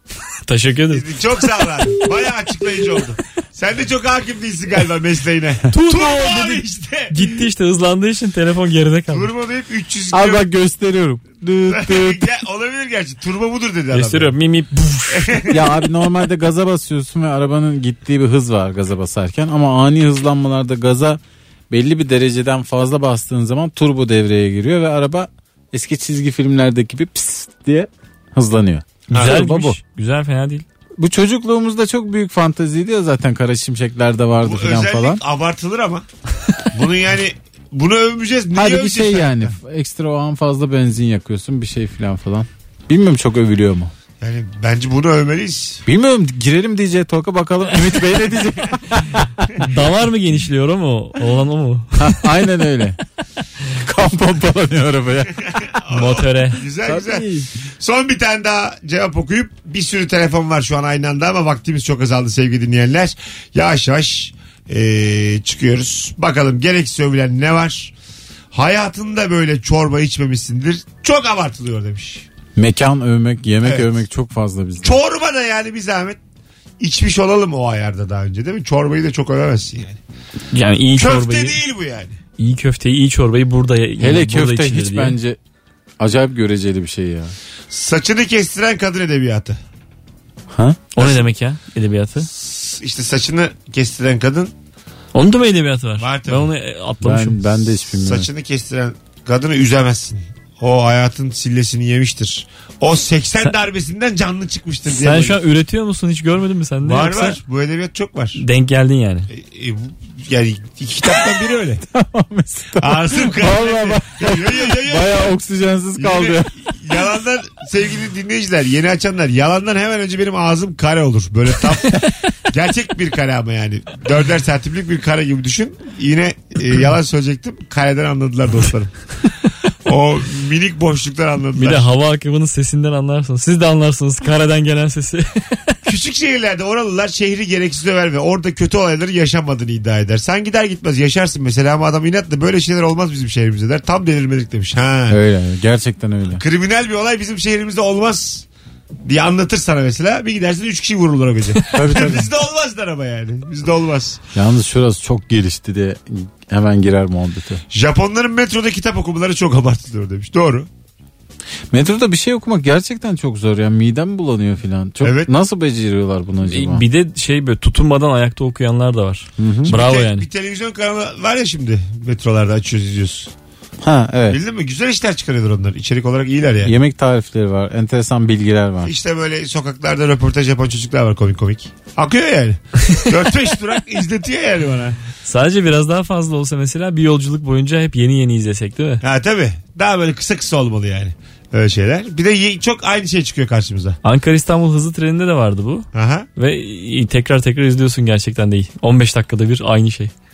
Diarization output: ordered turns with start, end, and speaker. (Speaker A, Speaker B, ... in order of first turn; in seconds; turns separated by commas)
Speaker A: 0.5-1.4, Speaker B: 0.9-7.4, Speaker A: 5.7-9.3, Speaker B: 9.1-10.5, Speaker C: 10.1-12.3, Speaker B: 11.7-14.3, Speaker A: 13.9-15.6, Speaker B: 15.1-15.6, Speaker C: 15.5-29.8, Speaker A: 29.1-30.6, Speaker B: 29.1-29.4, Speaker C: 31.0-35.2, Speaker B: 34.4-36.0, Speaker B: 36.7-39.5, Speaker C: 38.5-43.9, Speaker B: 44.2-45.8, Speaker C: 45.9-49.3, Speaker A: 49.6-52.2, Speaker C: 52.0-53.0, Speaker C: 53.8-55.4, Speaker B: 55.5-57.2, Speaker A: 55.9-56.6, Speaker C: 56.9-57.5, Speaker B: 57.8-67.9, Speaker B: 68.5-72.3, Speaker C: 72.6-75.0, Speaker B: 73.6-73.9, Speaker B: 74.8-76.2, Speaker B: 76.8-80.0, Speaker A: 80.5-81.6, Speaker B: 81.0-82.2, Speaker A: 82.4-85.2, Speaker C: 84.0-85.4, Speaker C: 86.0-87.3, Speaker B: 87.7-89.6, Speaker C: 90.5-90.8, Speaker A: 91.0-92.3, Speaker B: 91.0-91.2, Speaker B: 92.2-94.5, Speaker A: 95.1-97.4, Speaker B: 96.0-96.5, Speaker C: 97.0-98.3, Speaker B: 98.0-105.4, Speaker A: 104.9-107.4, Speaker B: 106.8-108.4, Speaker A: 108.4-109.3, Speaker B: 109.3-111.8, Speaker C: 111.9-116.5, Speaker B: 112.8-115.3, Speaker B: 116.0-129.1, Speaker B: 129.8-131.9, Speaker A: 131.6-135.8, Speaker B: 135.9-145.2, Speaker C: 145.1-146.4, Speaker B: 146.3-148.5, Speaker B: 149.1-154.2, Speaker C: 151.7-152.3, Speaker C: 154.3-157.6, Speaker B: 157.7-160.7, Speaker C: 161.7-166.8, Speaker B: 165.0-165.3, Speaker A: 166.5-170.3, Speaker C: 169.4-169.8, Speaker B: 169.7-173.3, Speaker C: 173.8-174.4, Speaker B: 174.3-176.7, Speaker C: 176.6-178.9, Speaker B: 178.8-185.0, Speaker A: 185.2-189.0, Speaker B: 189.0-194.0, Speaker A: 194.0-200.1, Speaker B: 195.9-196.3